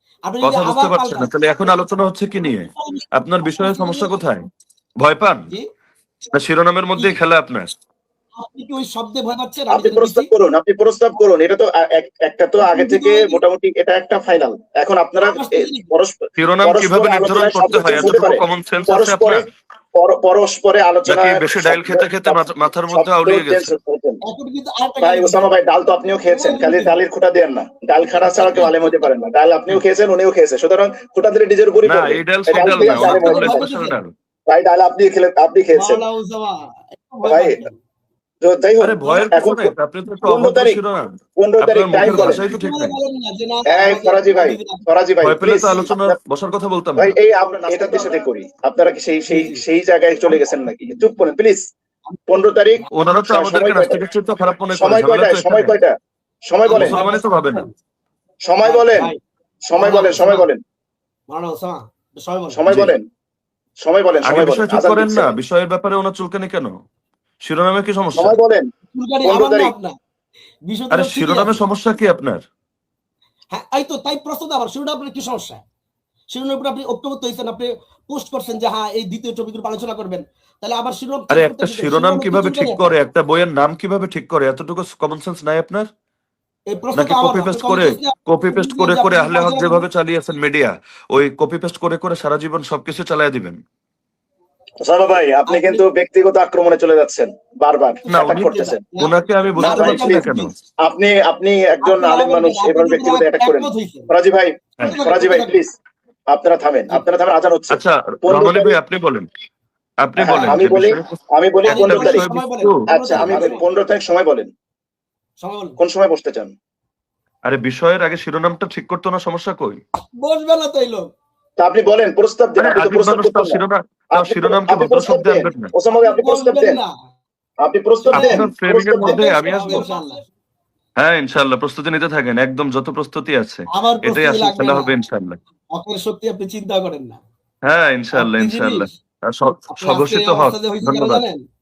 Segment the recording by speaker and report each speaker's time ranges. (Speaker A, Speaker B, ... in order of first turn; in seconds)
Speaker A: 0.3-1.7, 2.5-4.2, 8.4-10.3, 12.6-13.4, 15.2-15.9, 17.5-18.1, 24.3-25.5, 26.3-26.9, 28.2-29.1, 32.7-34.0, 35.7-37.7, 42.0-44.8, 49.3-49.6, 52.1-52.9, 56.7-57.7, 58.6-59.2, 59.8-60.5, 61.3-62.6, 68.9-70.0, 70.7-71.6, 73.5-75.6, 76.3-83.0, 86.7-89.8, 95.5-95.8, 98.9-100.5, 101.8-104.1, 104.8-105.6, 110.3-110.7, 111.7-113.7, 115.4-115.8, 120.1-121.1, 125.9-126.9, 128.1-128.5, 129.0-130.2, 133.7-134.9, 135.7-137.2, 138.1-138.9, 139.7-141.4
Speaker B: 0.4-4.5, 5.0-5.5, 6.3-7.7, 16.4-19.4, 21.1-23.8, 31.9-34.1, 38.8-41.1, 41.6-43.0, 45.2-47.2, 52.9-55.8, 56.7-57.7, 62.7-63.0, 64.2-66.7, 67.4-68.4, 70.9-72.4, 81.3-85.9, 87.0-93.6, 98.1-100.5, 107.7-109.3, 110.0-111.2, 111.7-113.5, 117.5-119.8, 122.6-125.7, 128.1-129.9, 131.0-135.4, 137.7-141.2
Speaker C: 9.7-24.2, 25.0-33.7, 34.5-36.0, 37.2-37.6, 38.4-40.8, 41.4-42.5, 43.7-46.2, 47.0-51.7, 52.3-54.0, 54.7-55.9, 56.5-57.0, 58.5-59.1, 59.7-60.6, 62.5-63.0, 63.8-65.3, 68.2-68.7, 69.2-69.7, 94.8-98.8, 99.6-100.3, 100.8-105.7, 106.3-108.8, 110.2-112.3, 112.9-114.5, 115.8-116.5, 121.6-123.6, 124.1-126.8, 127.6-129.3